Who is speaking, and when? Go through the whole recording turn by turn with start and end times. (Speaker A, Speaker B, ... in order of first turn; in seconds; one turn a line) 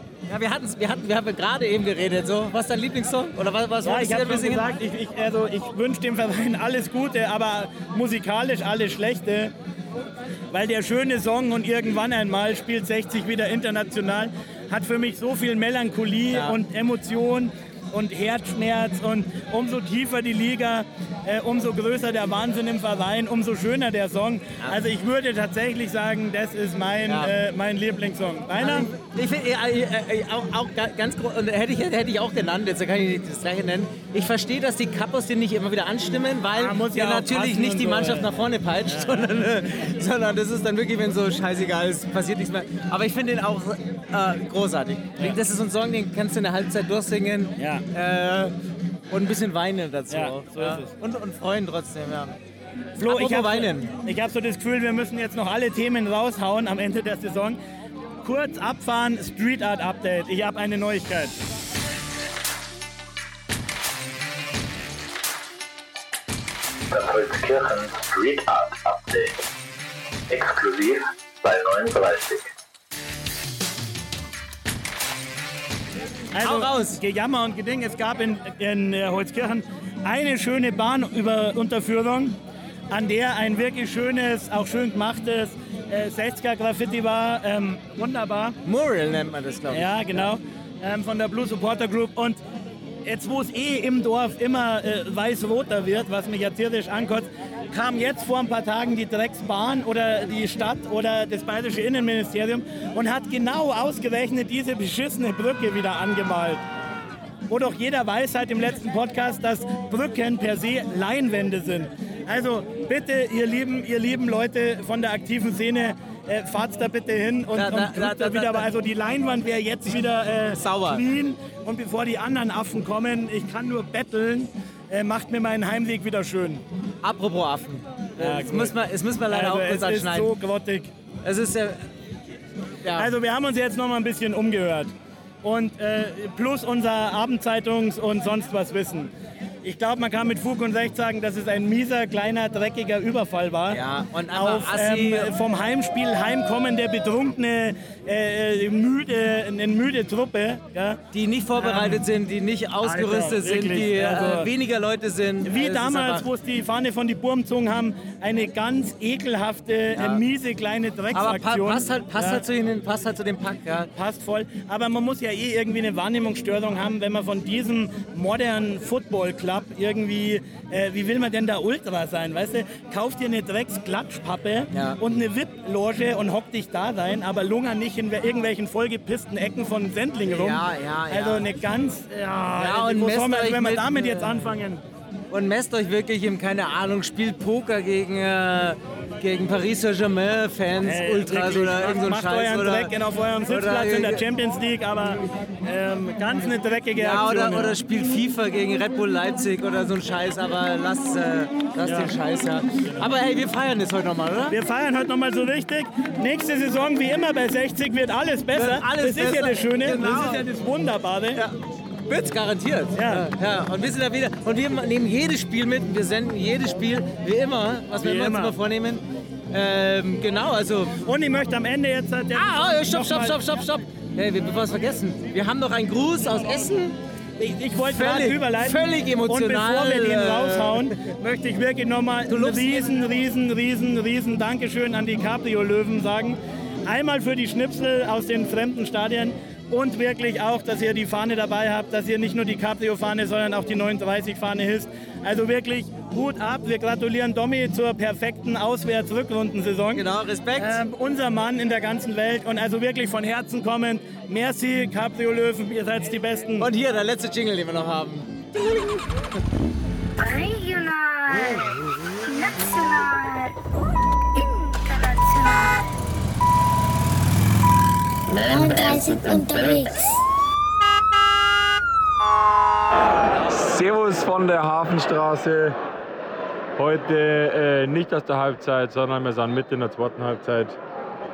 Speaker A: 0.3-4.7
Speaker B: 3.8-9.5
Speaker B: 10.5-28.9
Speaker A: 16.3-16.6
Speaker A: 27.1-27.3
Speaker A: 28.6-48.5
Speaker B: 36.5-38.3
Speaker B: 38.9-39.4
Speaker B: 47.6-47.9
Speaker A: 49.1-52.4
Speaker B: 50.1-50.9
Speaker B: 53.0-57.6
Speaker A: 53.0-53.9
Speaker B: 58.2-61.4
Speaker C: 66.9-69.3
Speaker C: 70.3-72.5
Speaker B: 76.3-82.4
Speaker A: 76.4-77.0
Speaker B: 82.9-88.5
Speaker A: 88.6-90.3
Speaker B: 89.7-92.4
Speaker B: 93.0-106.6
Speaker B: 107.5-126.6
Speaker A: 117.5-118.6
Speaker A: 120.5-121.0
Speaker A: 127.0-130.3
Speaker B: 128.2-128.8
Speaker B: 129.3-130.9
Speaker A: 131.2-131.8
Speaker A: 132.8-133.1
Speaker B: 132.9-139.1
Speaker B: 139.6-151.0
Speaker A: 143.7-145.3
Speaker A: 151.1-156.2
Speaker B: 151.6-152.0
Speaker B: 152.8-154.5
Speaker B: 155.4-162.4
Speaker A: 159.9-160.2
Speaker A: 161.1-163.9
Speaker B: 163.9-184.8
Speaker A: 174.7-175.0
Speaker A: 180.3-181.4
Speaker A: 182.6-184.5
Speaker A: 185.3-192.9
Speaker B: 190.8-197.8
Speaker A: 193.5-194.2
Speaker A: 197.0-204.6
Speaker B: 201.8-202.1
Speaker B: 202.8-203.1
Speaker B: 204.5-211.4
Speaker A: 208.5-210.4
Speaker A: 211.3-221.0
Speaker B: 212.9-213.3
Speaker B: 217.9-218.6
Speaker B: 221.0-223.4
Speaker A: 222.3-227.0
Speaker B: 227.4-250.0
Speaker A: 227.8-230.9
Speaker A: 232.3-232.9
Speaker A: 249.9-250.8
Speaker B: 250.6-256.7
Speaker A: 256.6-258.9
Speaker D: 260.2-261.6
Speaker D: 262.2-263.5
Speaker D: 264.4-265.8
Speaker D: 268.3-270.1
Speaker E: 273.6-275.7
Speaker E: 276.8-280.8